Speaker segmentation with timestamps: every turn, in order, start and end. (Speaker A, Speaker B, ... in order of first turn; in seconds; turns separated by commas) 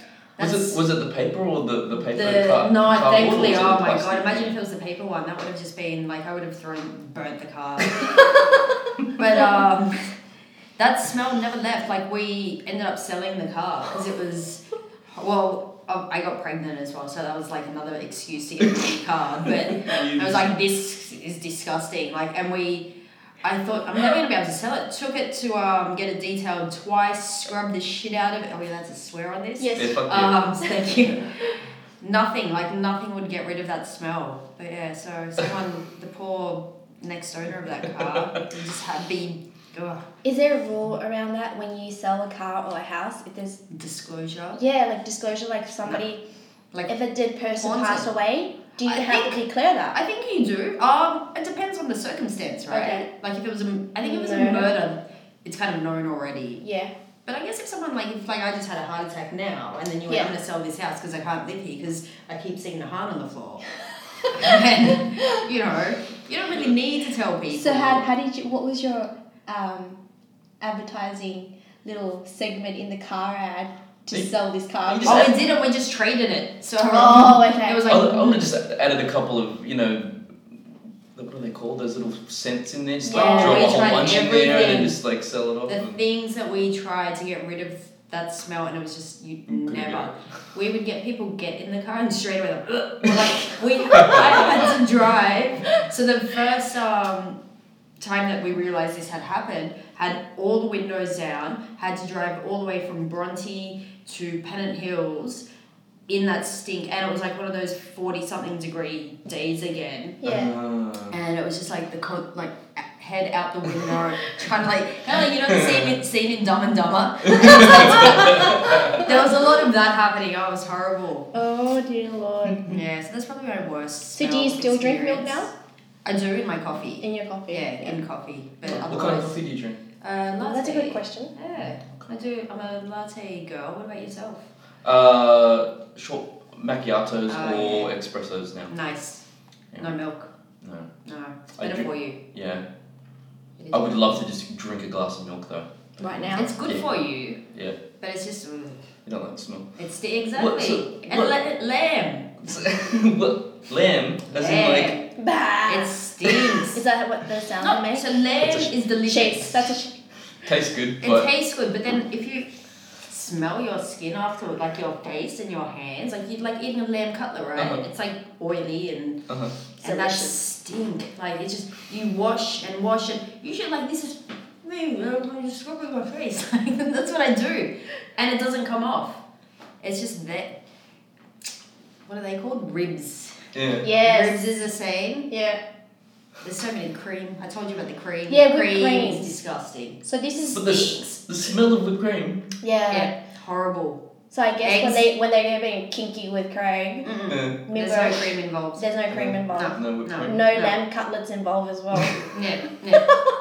Speaker A: 0.4-0.8, Speaker B: 0.4-4.6, Speaker A: 2.0-8.2, Speaker A: 9.1-9.9, Speaker A: 10.8-22.9, Speaker B: 19.6-20.6, Speaker A: 23.4-31.5, Speaker C: 29.6-30.1, Speaker B: 29.7-30.4, Speaker C: 30.6-30.9, Speaker A: 32.0-40.0, Speaker C: 40.2-43.6, Speaker A: 43.7-44.6, Speaker C: 44.5-46.2, Speaker C: 46.9-50.0, Speaker A: 47.5-48.1, Speaker A: 48.8-49.4, Speaker A: 49.9-56.6, Speaker C: 52.7-53.1, Speaker C: 54.0-54.8, Speaker C: 56.6-56.9, Speaker A: 57.2-63.6, Speaker C: 60.1-60.3, Speaker A: 64.3-68.0, Speaker C: 67.5-70.0, Speaker C: 70.6-75.3, Speaker B: 74.8-75.3, Speaker A: 75.0-78.5, Speaker C: 76.8-78.1, Speaker B: 77.9-80.2, Speaker B: 81.1-86.0, Speaker C: 83.0-84.0, Speaker A: 83.1-85.0, Speaker A: 85.7-97.4, Speaker B: 89.5-90.1, Speaker B: 94.0-94.7, Speaker A: 98.0-105.5, Speaker A: 106.1-110.2, Speaker C: 110.2-110.5, Speaker B: 110.2-111.2, Speaker A: 111.1-121.3, Speaker B: 115.5-115.9, Speaker B: 117.3-119.2, Speaker C: 118.0-119.1, Speaker C: 121.3-122.7, Speaker A: 122.7-125.5, Speaker C: 124.1-125.5, Speaker A: 126.0-129.4, Speaker C: 127.0-128.0, Speaker B: 128.6-129.8, Speaker A: 130.0-134.4, Speaker C: 130.4-131.3, Speaker B: 134.8-138.7, Speaker A: 137.3-137.9, Speaker A: 138.7-139.2, Speaker A: 139.8-140.3, Speaker B: 140.6-140.9, Speaker A: 141.0-142.2, Speaker B: 141.6-142.6, Speaker A: 143.6-144.2, Speaker B: 143.7-146.9, Speaker C: 146.0-146.5, Speaker A: 146.3-147.4, Speaker B: 147.5-147.8, Speaker A: 148.0-148.8, Speaker B: 149.1-149.7, Speaker A: 149.8-152.3, Speaker B: 150.3-151.3, Speaker B: 152.4-155.0, Speaker A: 154.3-155.1, Speaker C: 155.2-158.1, Speaker A: 155.7-156.8, Speaker A: 157.6-159.7, Speaker B: 158.4-158.7, Speaker C: 159.0-159.9, Speaker B: 160.4-161.3, Speaker A: 161.0-162.5, Speaker A: 163.0-169.2, Speaker B: 167.6-167.8, Speaker A: 169.8-179.2, Speaker C: 169.8-170.3, Speaker A: 179.8-180.5, Speaker A: 182.1-183.3, Speaker B: 183.5-183.9, Speaker C: 183.8-184.4, Speaker A: 184.0-185.3, Speaker C: 185.3-185.6, Speaker A: 186.4-190.0, Speaker C: 188.3-189.3, Speaker C: 190.0-191.0, Speaker B: 190.5-192.4, Speaker C: 192.6-193.1, Speaker A: 192.9-194.0, Speaker C: 194.3-197.1, Speaker A: 194.6-195.1, Speaker A: 197.0-198.8, Speaker B: 197.3-197.6, Speaker C: 197.6-202.3, Speaker B: 199.1-200.4, Speaker A: 199.5-200.8, Speaker A: 202.3-203.1